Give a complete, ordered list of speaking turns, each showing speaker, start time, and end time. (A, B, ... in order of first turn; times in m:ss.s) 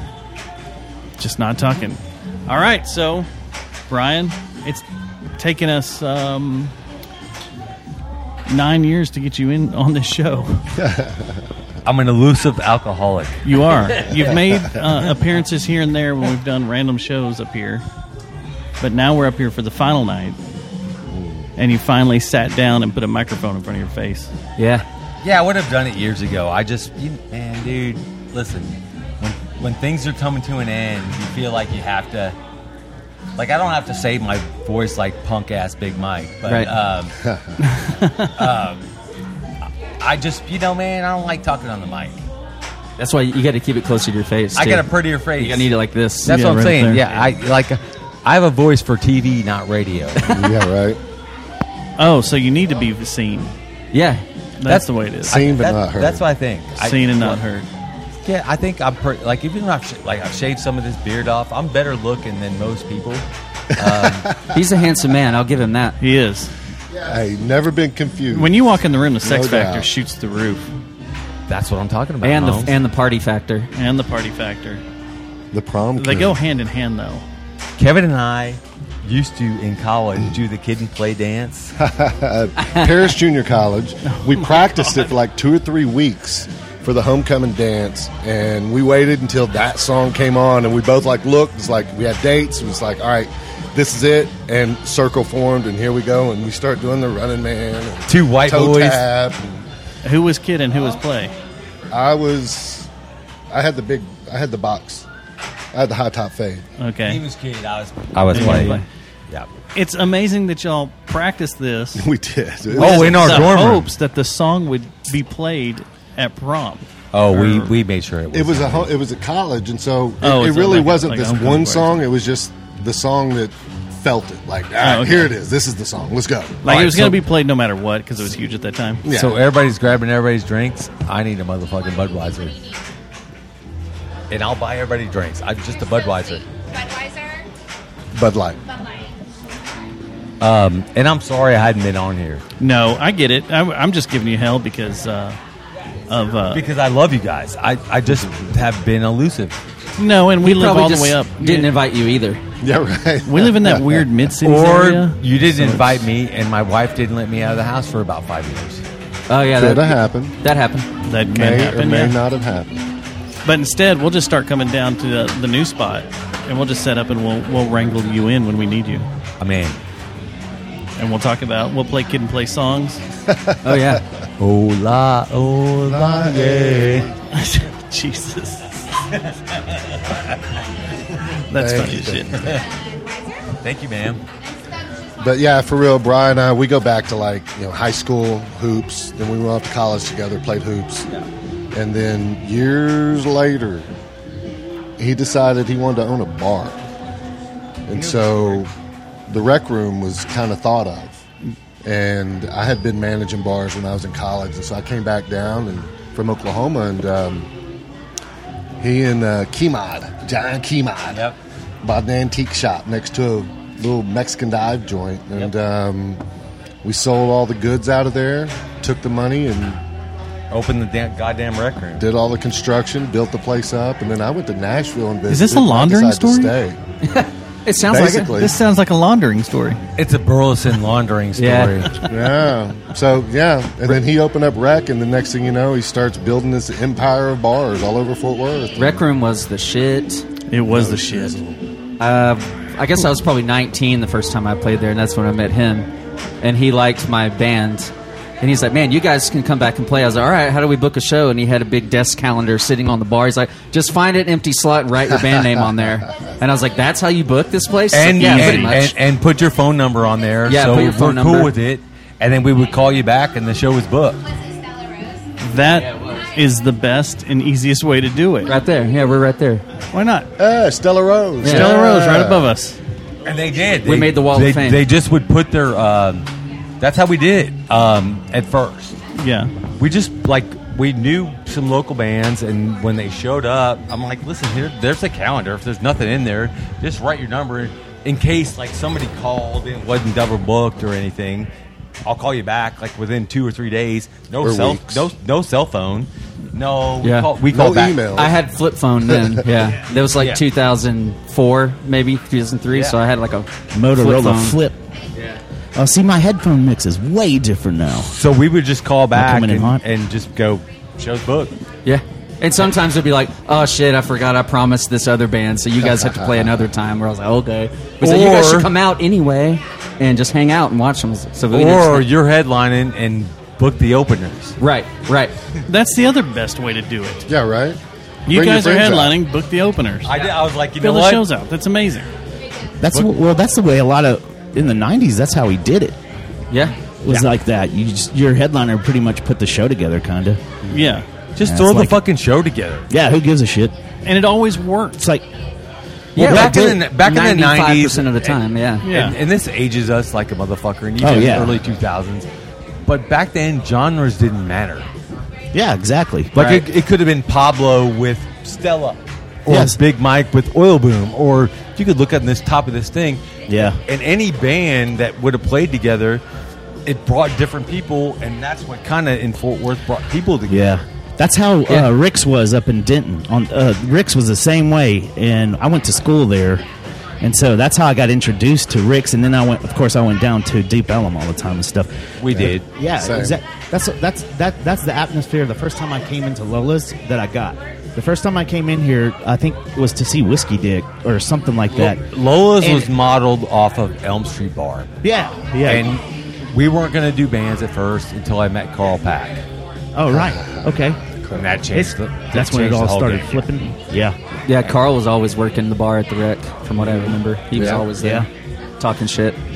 0:01.2-0:03.3 A
0:03.9-0:04.8 A
0:05.4-0:06.7 A
0:08.5-0:10.6 A
0:10.8-0:11.2 B
0:11.9-0:14.2 C
0:13.4-0:17.8 A
0:18.8-0:20.4 A
0:21.6-0:24.3 A
0:24.6-0:24.8 D
0:25.2-0:32.4 C
0:33.4-0:37.1 C
0:36.4-0:36.7 D
0:37.2-0:37.5 B
0:37.6-0:38.5 A
0:38.4-0:38.9 C
0:40.0-0:42.2 C
0:43.0-0:46.5 D
0:44.6-0:45.7 C
0:46.2-0:47.2 A
0:46.3-0:50.2 C
0:50.3-0:51.0 B
0:52.0-0:53.5 A
0:53.9-0:54.2 D
0:54.6-0:55.4 A
0:54.7-0:57.4 C
0:55.3-0:56.3 B
0:56.8-0:57.7 A
0:58.2-1:03.2 C
1:03.8-1:04.6 B
1:03.8-1:04.2 C
1:04.5-1:06.0 D
1:06.0-1:06.5 A
1:07.0-1:08.6 B
1:08.3-1:10.6 A
1:09.2-1:09.9 B
1:11.5-1:12.7 C
1:12.2-1:13.7 D
1:13.7-1:14.8 A
1:15.5-1:16.4 B
1:16.0-1:17.3 A
1:17.8-1:21.7 C
1:21.8-1:39.6 B
1:22.6-1:23.1 D
1:24.1-1:25.1 A
1:38.1-1:39.0 C
1:40.0-1:41.3 A
1:41.9-1:42.9 B
1:43.5-1:45.1 B
1:45.7-1:46.6 B
1:46.8-1:47.2 A
1:47.1-1:49.5 C
1:48.3-1:48.9 A
1:49.7-1:52.0 A
1:52.0-1:53.5 B
1:52.8-1:57.8 A
1:52.8-1:53.9 C
1:57.1-1:58.9 C
1:58.3-2:06.7 B
2:00.2-2:02.0 A
2:04.8-2:05.3 A
2:06.6-2:09.1 A
2:06.7-2:07.1 C
2:09.0-2:09.4 B
2:09.1-2:12.6 C
2:14.3-2:16.5 C
2:18.1-2:18.6 B
2:20.4-2:22.4 C
2:22.6-2:25.4 A
2:26.1-2:26.6 A
2:26.5-2:29.6 C
2:28.1-2:28.6 B
2:30.0-2:31.7 A
2:30.4-2:32.4 D
2:32.6-2:34.1 B
2:33.3-2:36.1 A
2:34.4-2:38.8 C
2:39.3-2:40.9 D
2:39.6-2:40.4 B
2:41.1-2:42.2 A
2:41.3-2:42.8 B
2:43.4-2:49.1 A
2:49.4-2:49.8 C
2:51.0-2:53.0 A
2:53.5-2:54.0 B
2:53.6-2:54.0 D
2:54.4-2:57.1 C
2:55.8-2:57.1 B
2:57.3-2:58.8 A
3:01.5-3:02.5 A
3:01.5-3:02.4 B
3:03.6-3:04.2 C
3:05.2-3:11.1 B
3:11.7-3:13.9 B
3:15.0-3:16.8 B
3:17.9-3:18.7 B
3:19.3-3:21.2 B
3:21.8-3:27.5 B
3:28.8-3:31.2 B
3:31.8-3:36.2 B
3:36.8-3:39.8 B
3:40.5-3:42.0 C
3:42.0-3:46.8 B
3:45.3-3:46.5 A
3:47.0-3:48.4 D
3:47.9-3:48.6 B
3:48.3-3:49.8 A
3:50.0-3:51.9 C
3:51.4-3:51.9 D
3:52.1-3:59.1 B
3:58.8-4:00.2 D
4:00.5-4:01.4 A
4:00.7-4:01.6 B
4:02.0-4:05.9 D
4:06.4-4:19.0 D
4:15.3-4:16.0 B
4:17.9-4:24.3 C
4:18.2-4:18.7 A
4:20.5-4:21.5 D
4:25.4-4:28.5 A
4:25.7-4:26.2 D
4:28.5-4:29.6 D
4:29.9-4:30.3 A
4:30.4-4:32.5 B
4:31.4-4:31.8 D
4:31.4-4:32.8 A
4:33.2-4:36.3 C
4:33.8-4:34.9 D
4:36.8-4:39.0 C
4:39.2-4:39.5 A
4:39.8-4:51.5 C
4:52.0-4:58.3 C
4:54.4-4:55.1 B
4:57.0-4:57.4 D
4:57.5-4:58.4 B
4:58.1-5:04.6 D
4:59.1-4:59.4 B
5:02.7-5:03.0 C
5:03.7-5:04.8 E
5:05.8-5:08.2 E
5:07.9-5:11.6 C
5:09.1-5:09.8 E
5:11.8-5:22.1 D
5:15.8-5:16.7 B
5:18.0-5:18.7 C
5:21.5-5:24.6 C
5:24.6-5:25.3 D
5:25.7-5:27.2 A
5:27.3-5:29.2 B
5:28.3-5:30.2 A
5:30.0-5:31.3 C
5:30.8-5:32.1 A
5:32.8-5:36.0 E
5:36.5-5:36.8 D
5:37.0-5:40.6 E
5:40.7-5:41.1 A
5:41.4-5:42.9 C
5:41.4-5:42.0 E
5:42.9-5:43.8 E
5:44.0-5:45.0 A
5:45.0-5:45.3 E
5:46.2-5:48.9 D
5:46.2-5:52.3 C
5:46.2-5:46.8 E
5:48.8-5:49.2 A
5:51.0-5:51.6 E
5:52.8-5:54.9 C
5:55.5-5:56.3 E
5:56.3-6:06.2 C
5:56.4-5:56.6 D
5:59.5-5:59.8 E
6:03.5-6:03.8 E
6:06.9-6:10.8 C
6:10.5-6:16.6 E
6:17.2-6:21.9 E
6:22.2-6:22.7 C
6:22.3-6:23.4 B
6:22.8-6:32.0 E
6:31.7-6:34.9 C
6:32.6-6:32.9 E
6:35.0-6:36.0 E
6:35.6-6:39.4 C
6:40.0-6:41.0 E
6:40.1-6:41.6 B
6:41.4-6:43.5 C
6:41.7-6:44.2 E
6:44.5-6:48.3 D
6:46.8-6:47.9 B
6:48.0-6:48.3 E
6:48.8-6:49.4 D